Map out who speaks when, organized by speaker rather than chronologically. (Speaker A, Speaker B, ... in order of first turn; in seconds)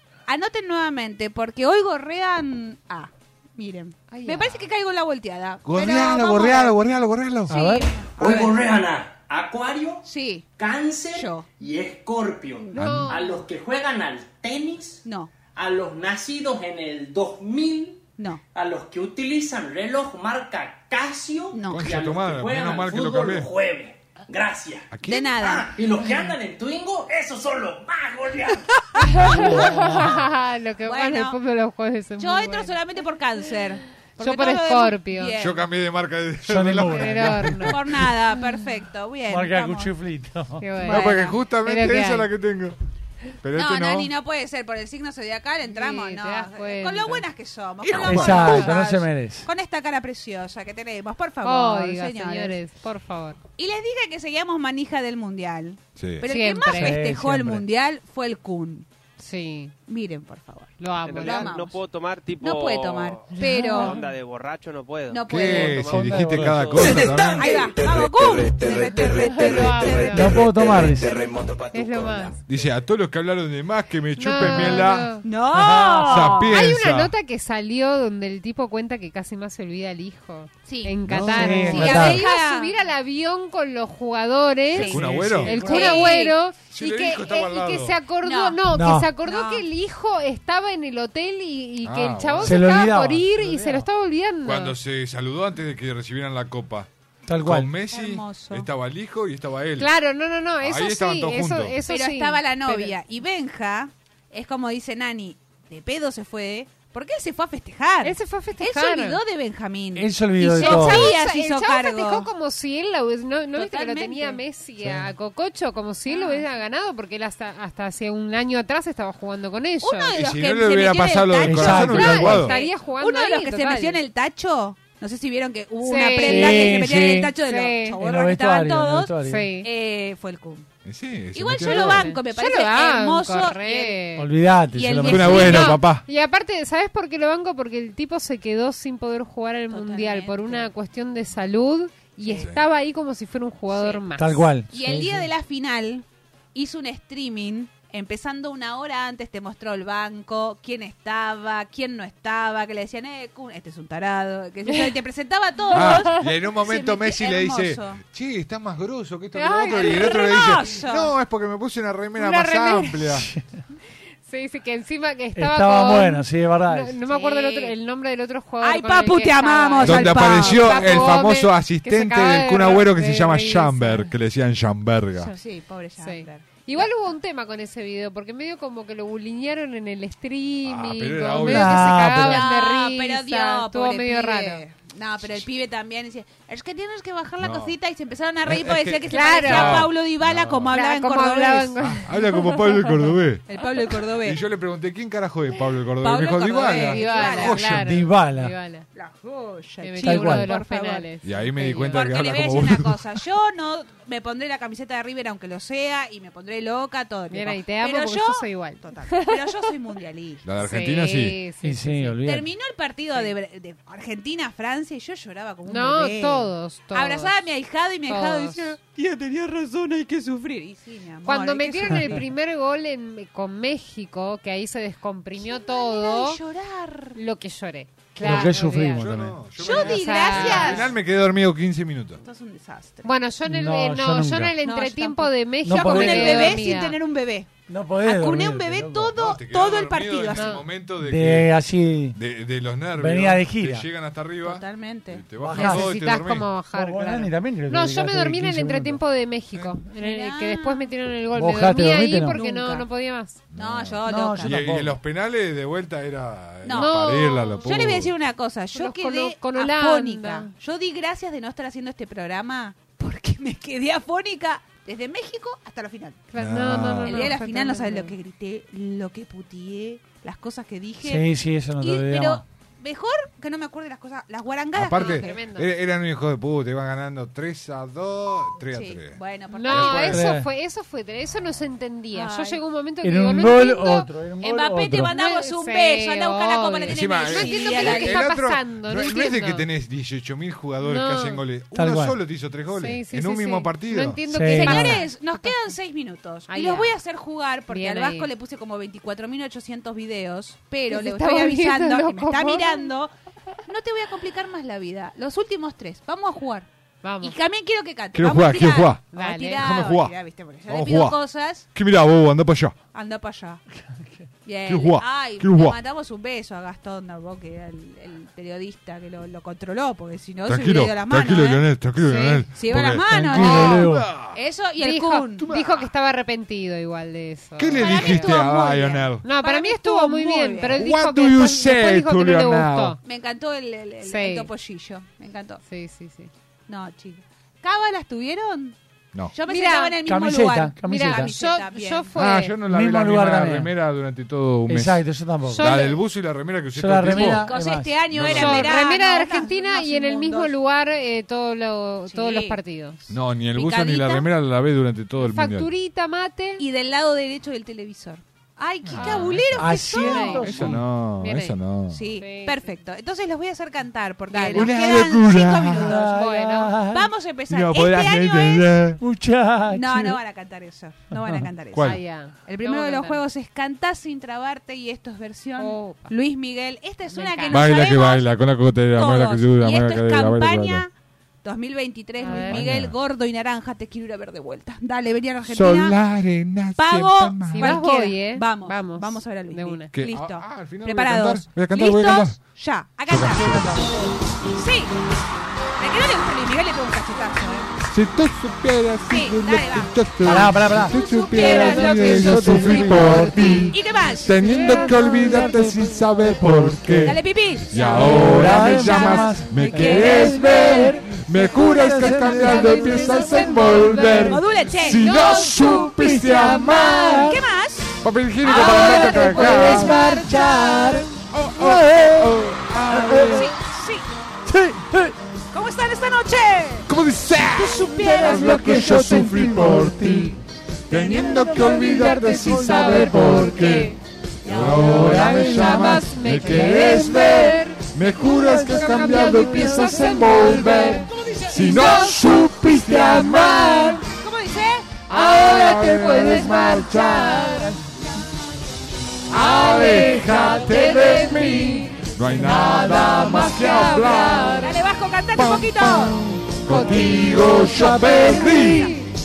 Speaker A: 0.3-6.8, 7.5-8.6, 10.0-10.5, 11.1-11.5, 12.6-13.3, 15.0-15.3, 18.2-18.4, 21.5-22.0, 25.0-25.8, 29.0-29.9, 30.9-31.4, 32.2-35.6, 37.5-39.9, 40.9-41.4, 43.6-52.6, 53.6-58.9, 59.9-61.8, 62.4-64.0, 65.1-65.9, 66.9-70.5, 74.5-76.6, 80.7-82.8, 84.7-86.4, 88.2-88.6, 89.2-89.7, 97.9-98.7, 101.9-112.3, 113.5-114.4, 116.1-116.5, 119.8-130.7, 131.3-134.0, 134.7-135.8, 139.7-140.7, 142.2-142.5, 143.7-144.0, 144.7-158.0, 159.5-161.1, 167.1-167.8, 168.6-171.2, 175.3-176.9, 182.2-191.8, 193.5-194.4, 196.0-197.6, 198.9-201.1, 201.9-210.4, 212.2-222.2, 225.4-227.2, 229.6-230.9, 232.2-233.1, 234.6-240.6, 244.4-245.2, 250.0-250.9, 252.3-252.9, 253.5-254.7, 256.6-266.2, 267.0-275.4, 278.7-280.3, 282.1-282.6, 284.4-288.3, 294.5-303.1, 303.7-306.7, 307.2-311.7, 312.9-313.6, 314.4-325.5, 327.8-330.8, 333.0-335.6, 336.7-338.8, 339.3-342.1, 347.1-350.5, 352.1-352.6, 353.6-354.3, 356.6-360.8, 361.9-366.2, 366.9-368.8, 369.7-378.3, 378.9-380.9, 381.4-386.0, 386.8-393.8, 394.6-394.9, 395.8-397.7, 399.1-399.9, 401.3-403.2, 403.7-405.1, 407.1-410.6, 412.6-413.2, 414.2-420.8, 422.9-424.1, 425.5-426.9, 427.5-429.3, 444.1-444.9, 454.6-456.2, 457.8-459.0
Speaker B: 4.1-4.6, 12.8-13.3, 29.1-32.8, 34.2-35.4, 36.9-37.8, 40.6-42.3, 45.7-47.3, 48.4-48.7, 51.4-53.4, 56.2-57.0, 59.2-59.7, 60.8-61.6, 63.4-64.0, 69.0-70.4, 71.7-72.4, 74.2-75.2, 76.1-94.8, 99.8-103.0, 108.0-109.2, 110.5-120.2, 121.8-124.0, 125.8-126.7, 127.4-128.0, 129.2-129.7, 131.6-134.3, 135.2-144.5, 155.7-156.3, 159.4-160.4, 162.2-163.2, 164.2-174.1, 176.0-184.6, 189.1-189.9, 190.7-193.1, 196.7-198.9, 199.8-202.1, 207.3-209.5, 210.6-212.2, 215.7-217.4, 218.1-218.8, 221.2-226.4, 227.2-230.9, 233.0-237.0, 240.3-240.7, 245.6-253.4, 256.7-257.9, 258.7-260.5, 266.3-268.1, 274.9-275.7, 279.5-284.1, 285.1-289.7, 290.8-291.4, 292.7-295.6, 296.5-297.0, 297.7-298.3, 300.9-302.9, 307.0-307.4, 309.1-309.7, 324.8-328.6, 329.2-333.0, 334.1-334.5, 335.7-336.3, 339.5-340.0, 340.8-342.6, 345.5-346.0, 348.3-353.1, 355.2-356.6, 359.0-359.4, 359.9-360.6, 361.1-361.6, 362.2-362.7, 364.3-364.8, 366.1-366.8, 371.8-373.2, 375.6-376.1, 377.1-377.9, 382.2-382.7, 387.4-389.9, 431.5-433.9, 434.8-444.0, 445.1-447.7, 449.4-454.7, 456.7-458.7
Speaker C: 5.7-7.6, 12.8-13.1, 21.7-23.5, 24.9-25.4, 35.4-37.9, 40.9-42.8, 43.4-44.1, 47.8-48.6, 56.0-56.3, 65.3-67.6, 72.5-75.1, 76.0-77.1, 81.1-81.7, 84.7-85.7, 86.7-88.0, 91.8-92.8, 94.4-96.9, 97.4-99.9, 100.6-101.8, 120.1-122.5, 130.8-132.1, 135.1-136.1, 142.4-142.7, 155.7-163.3, 169.8-175.3, 180.6-182.2, 187.4-187.8, 188.5-190.8, 191.8-193.5, 194.2-197.9, 201.2-203.0, 210.4-211.4, 229.0-232.2, 239.1-241.5, 242.2-246.5, 253.5-258.1, 266.4-267.4, 274.7-280.2, 286.9-294.2, 308.1-310.2, 310.7-311.2, 311.7-312.8, 314.7-315.8, 320.5-324.4, 325.4-325.9, 327.6-329.2, 330.7-333.0, 342.1-345.0, 345.5-347.5, 348.1-348.8, 353.1-355.7, 358.8-362.0, 364.5-365.9, 367.5-369.0, 371.7-372.0, 377.5-380.9, 382.3-382.9, 385.5-387.8, 389.9-392.4, 393.1-393.9, 397.9-417.2, 418.0-420.0, 421.3-423.5, 426.9-430.4, 430.9-433.9, 434.5-444.0, 445.1-447.7, 449.3-454.7, 455.4-458.9
Speaker D: 7.5-7.9, 29.3-30.0, 36.5-37.4, 39.3-40.7, 48.0-49.5, 56.7-57.6, 65.9-66.9, 70.1-71.1, 81.2-82.2, 84.9-86.2, 88.7-89.1, 92.4-93.9, 97.3-97.7, 110.0-111.1, 121.5-122.5, 126.2-127.3, 128.0-129.5, 134.2-135.7, 144.2-145.3, 165.3-167.0, 181.4-182.4, 197.7-198.6, 200.0-200.5, 211.6-212.5, 228.2-229.4, 233.5-234.6, 235.6-236.6, 237.7-239.2, 241.0-242.2, 243.0-243.9, 245.4-246.0, 246.7-249.0, 251.3-252.4, 254.1-255.0, 271.0-272.4, 280.1-280.5, 283.0-285.1, 291.7-292.2, 294.3-295.0, 323.1-324.1, 340.1-341.3, 342.6-343.7, 344.7-345.7, 346.8-348.1, 359.6-360.8, 365.6-367.0, 369.0-370.2, 371.1-371.5, 393.1-393.9, 400.2-403.7, 404.4-407.2, 407.8-414.4, 415.3-417.4, 418.4-423.4, 424.5-425.1, 428.0-430.3, 431.1-433.4, 434.6-436.0, 436.8-437.2, 457.3-458.6
Speaker E: 8.2-10.0, 10.6-15.0, 15.6-18.0, 18.5-24.9, 25.4-28.7
Speaker F: 61.0-67.0